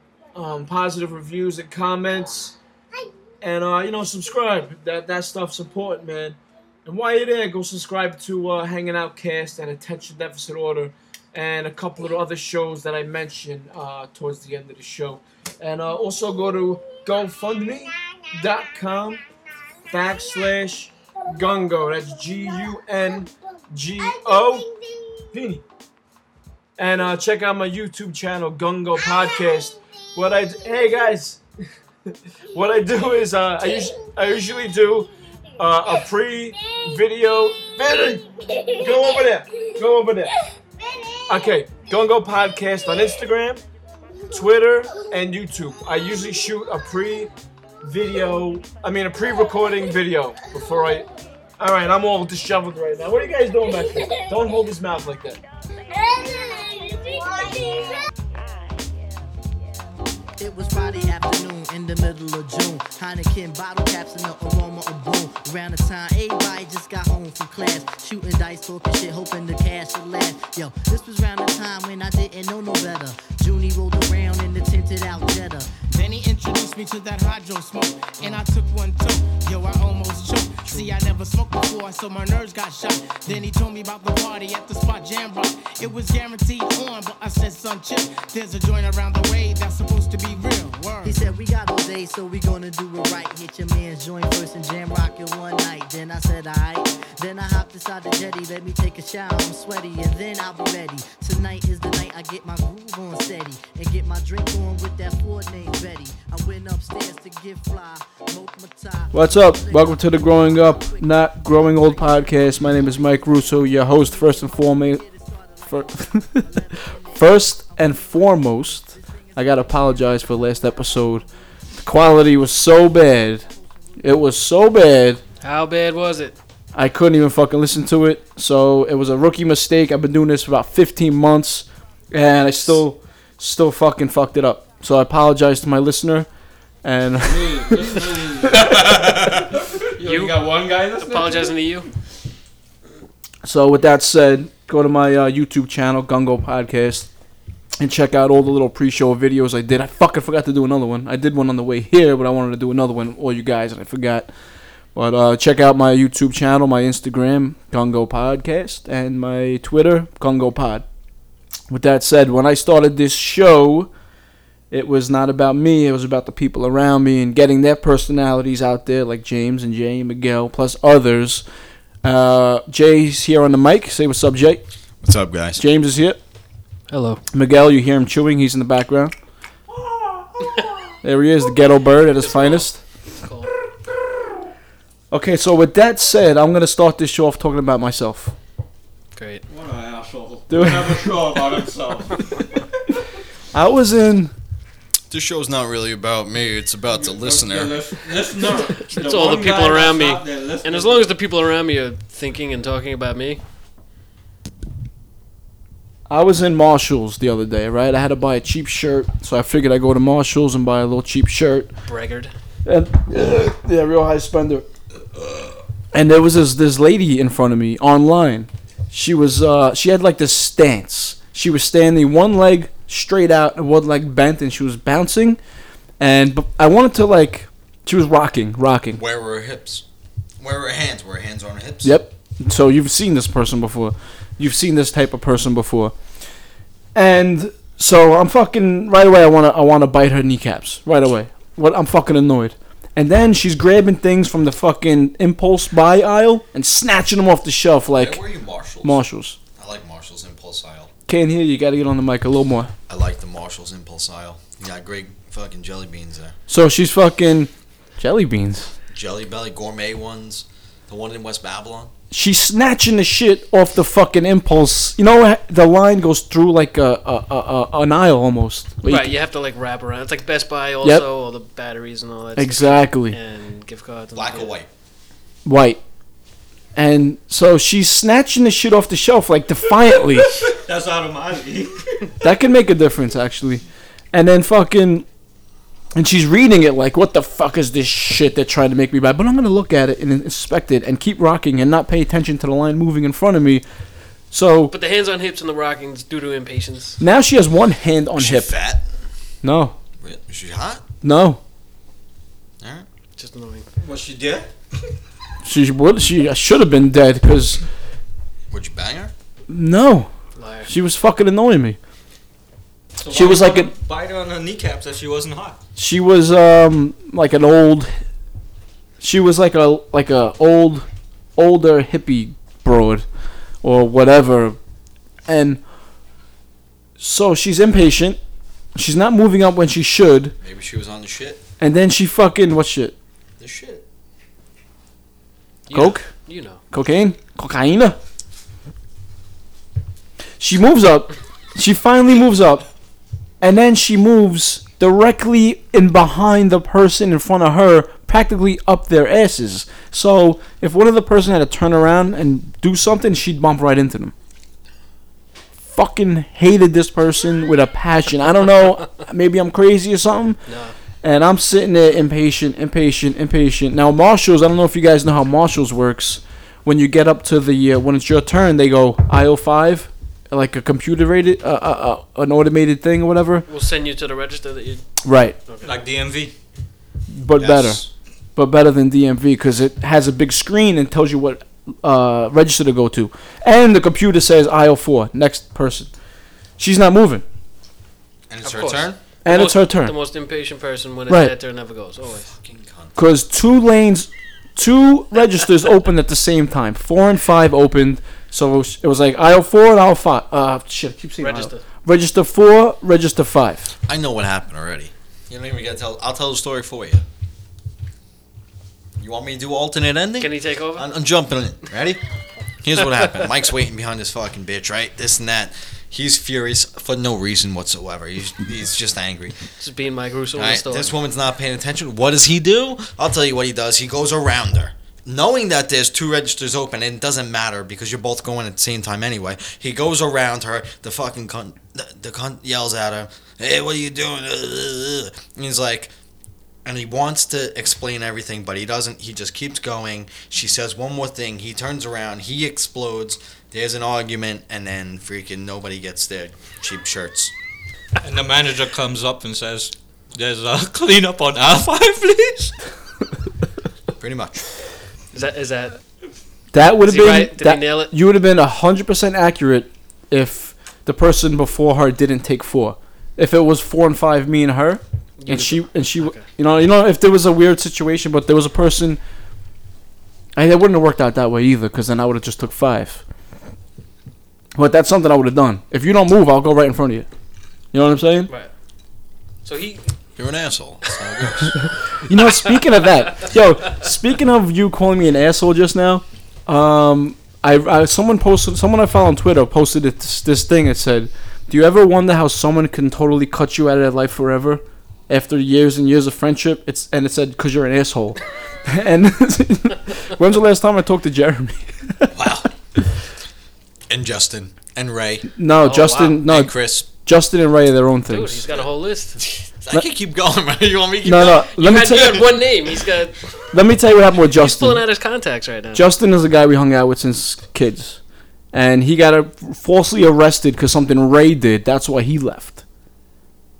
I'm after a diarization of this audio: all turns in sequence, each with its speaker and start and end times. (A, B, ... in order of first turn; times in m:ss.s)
0:00.3-0:02.6 A
0:03.4-0:19.2 A
0:19.9-0:24.7 A
0:25.3-0:25.6 A
0:26.8-0:31.4 A
0:32.5-0:40.3 A
0:41.3-0:43.6 A
0:44.3-0:51.1 A
0:51.6-0:55.4 A
0:56.2-0:57.9 B
1:00.4-1:15.7 B
1:15.9-1:31.2 C
1:31.0-2:01.0 B
1:49.1-1:55.0 D
1:55.7-1:56.6 D
1:57.1-2:01.2 D
2:01.8-2:03.4 D
2:04.0-2:05.2 D
2:05.4-2:06.4 E
2:06.7-2:16.3 D
2:16.8-2:18.0 D
2:17.2-2:21.6 F
2:20.0-2:21.9 E
2:23.4-2:27.1 D
2:27.8-2:34.3 D
2:34.9-2:40.8 D
2:41.7-2:43.9 D
2:44.7-2:51.4 D
2:52.0-2:54.6 D
2:55.0-2:55.6 G
2:55.6-2:56.2 D
2:56.9-2:57.2 E
2:57.3-2:59.1 D
3:01.0-3:02.8 D
3:02.2-3:03.5 E
3:05.1-3:08.3 D
3:09.1-3:09.4 E
3:09.5-3:12.6 F
3:10.5-3:11.2 D
3:13.5-3:14.3 D
3:15.1-3:17.8 G
3:16.9-3:21.1 F
3:18.9-3:23.4 E
3:26.1-3:31.7 D
3:31.9-3:32.3 E
3:32.6-3:34.6 D
3:35.9-3:45.4 D
3:46.0-3:49.0 D
3:48.9-3:49.8 G
3:50.4-3:52.0 G
3:51.8-3:55.9 D
3:56.9-4:08.2 D
4:07.9-4:09.0 G
4:08.8-4:09.4 D
4:09.6-4:10.9 G
4:11.1-4:12.7 D
4:12.9-4:16.4 G
4:16.5-4:18.7 D
4:18.9-4:21.9 G
4:22.1-4:29.1 D
4:28.8-4:34.5 E
4:32.4-4:33.2 D
4:34.1-4:34.7 G
4:35.4-4:35.8 D
4:36.7-4:40.5 D
4:40.1-4:42.1 F
4:42.2-4:45.0 D
4:45.9-4:53.6 D
4:54.3-4:54.7 D
4:54.7-4:57.0 E
4:57.0-4:58.5 D
4:58.2-4:58.8 G
4:59.4-4:59.7 D
5:00.0-5:00.8 G
5:01.0-5:01.4 D
5:02.6-5:02.8 G
5:03.2-5:03.7 E
5:03.8-5:04.5 F
5:05.4-5:07.6 D
5:08.5-5:09.1 G
5:09.5-5:10.1 D
5:10.4-5:10.7 E
5:10.7-5:11.8 D
5:13.0-5:15.6 F
5:13.1-5:13.7 D
5:15.8-5:17.9 D
5:19.0-5:20.8 D
5:21.4-5:23.0 D
5:23.6-5:24.6 D
5:25.3-5:25.6 D
5:27.0-5:28.2 D
5:28.7-5:30.3 D
5:30.4-5:31.4 G
5:31.6-5:32.9 D
5:33.4-5:33.8 G
5:35.7-5:36.6 E
5:35.7-5:36.1 D
5:36.7-5:38.0 D
5:40.4-5:42.6 D
5:43.4-5:54.1 D
5:55.7-6:00.4 D
6:00.5-6:00.7 E
6:01.0-6:13.4 D
6:13.5-6:14.8 E
6:15.0-6:15.4 D
6:15.6-6:16.3 F
6:17.1-6:17.8 D
6:17.3-6:17.9 G
6:18.4-6:25.9 D
6:26.6-6:27.2 D
6:28.3-6:29.0 G
6:28.4-6:32.3 E
6:29.2-6:29.9 D
6:32.0-6:33.0 G
6:33.0-6:43.7 D
6:41.2-6:41.6 E
6:43.9-6:47.0 G
6:49.0-6:52.0 G
6:50.2-6:50.9 E
6:52.6-6:59.4 G
6:59.6-7:00.9 E
7:00.3-7:15.9 G
7:16.6-7:27.3 G
7:28.0-7:32.5 F
7:34.0-7:34.4 G
7:35.1-7:35.8 E
7:36.5-7:49.0 D
7:36.8-7:37.9 E
7:45.2-7:46.2 E
7:50.4-7:53.0 D
7:54.5-7:57.1 D
7:57.7-7:58.3 D
7:59.4-7:59.9 E
8:00.2-8:01.6 G
8:01.9-8:22.1 D
8:22.1-8:22.5 G
8:23.9-8:25.3 G
8:25.4-8:28.4 D
8:25.6-8:26.2 E
8:26.2-8:26.9 G
8:28.1-8:29.2 E
8:29.2-8:32.3 G
8:31.0-8:32.2 D
8:31.6-8:33.3 E
8:33.5-8:34.8 D
8:34.3-8:35.9 E
8:35.7-8:38.0 D
8:38.5-8:42.6 D